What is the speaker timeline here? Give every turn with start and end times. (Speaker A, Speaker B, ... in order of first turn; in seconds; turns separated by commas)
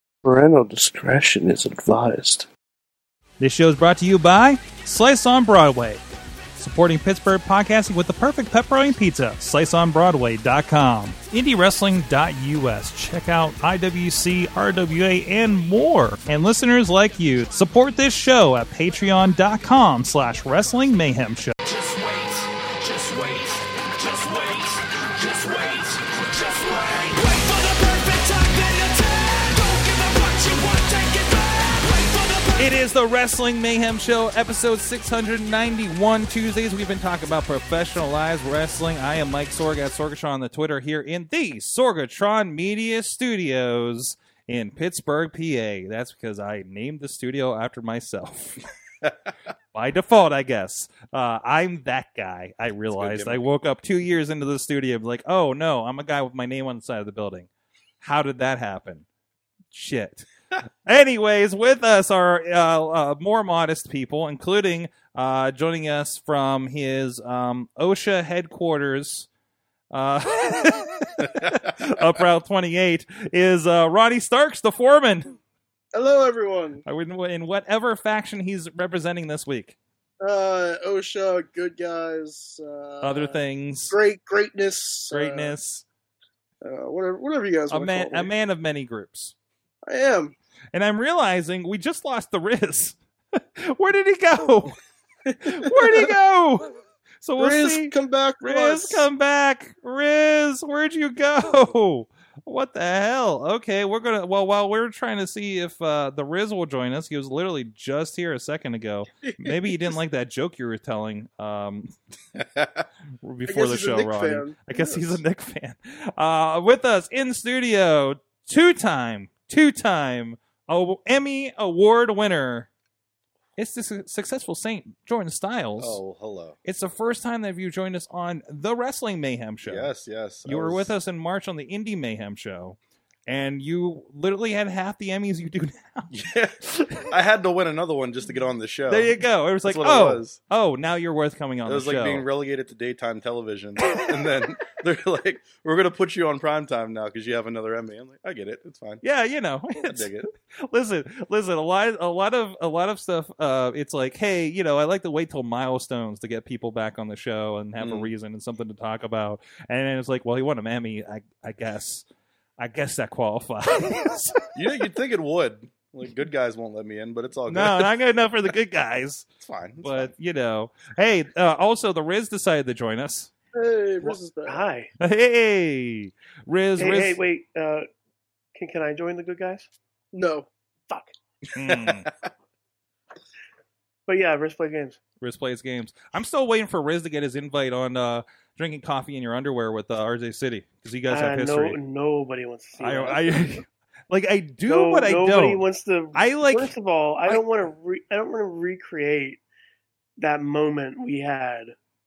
Speaker A: 0.2-2.5, Speaker B: 3.4-6.0, Speaker B: 6.6-21.6, Speaker C: 21.6-32.8, Speaker B: 32.6-48.6, Speaker B: 49.7-57.5, Speaker D: 52.9-53.5, Speaker B: 58.0-59.0, Speaker B: 59.7-69.3, Speaker B: 69.9-75.4, Speaker D: 71.2-71.7, Speaker E: 75.9-76.8, Speaker B: 76.8-79.8, Speaker E: 80.2-83.4, Speaker B: 83.0-84.0, Speaker E: 83.9-85.6, Speaker B: 85.1-85.8, Speaker E: 86.6-88.3, Speaker B: 87.7-89.3, Speaker E: 89.8-90.3, Speaker B: 90.7-94.8, Speaker E: 95.3-96.1, Speaker B: 95.4-111.9, Speaker E: 97.4-99.1, Speaker E: 109.2-109.8, Speaker D: 112.3-112.8, Speaker B: 113.2-122.7, Speaker E: 113.5-115.2, Speaker B: 123.6-126.0, Speaker D: 125.8-126.6, Speaker B: 126.6-129.9, Speaker D: 129.7-130.9, Speaker B: 130.4-136.1, Speaker D: 136.1-140.4, Speaker B: 138.9-142.3, Speaker D: 141.7-149.0, Speaker B: 149.0-150.1, Speaker D: 149.7-150.3, Speaker B: 150.6-162.0, Speaker D: 157.8-158.1, Speaker B: 162.6-164.5, Speaker D: 164.5-167.9, Speaker B: 167.5-169.3, Speaker D: 169.4-170.1, Speaker B: 169.8-173.3, Speaker E: 173.5-174.6, Speaker F: 174.4-174.9, Speaker B: 175.0-177.2, Speaker F: 176.8-177.9, Speaker F: 178.5-179.7, Speaker E: 180.1-180.5, Speaker B: 181.5-182.1, Speaker D: 181.6-182.3, Speaker F: 184.1-185.0, Speaker B: 185.2-191.8, Speaker F: 191.1-193.3, Speaker B: 192.8-195.6, Speaker F: 194.7-199.4, Speaker B: 196.1-196.7, Speaker F: 200.2-201.8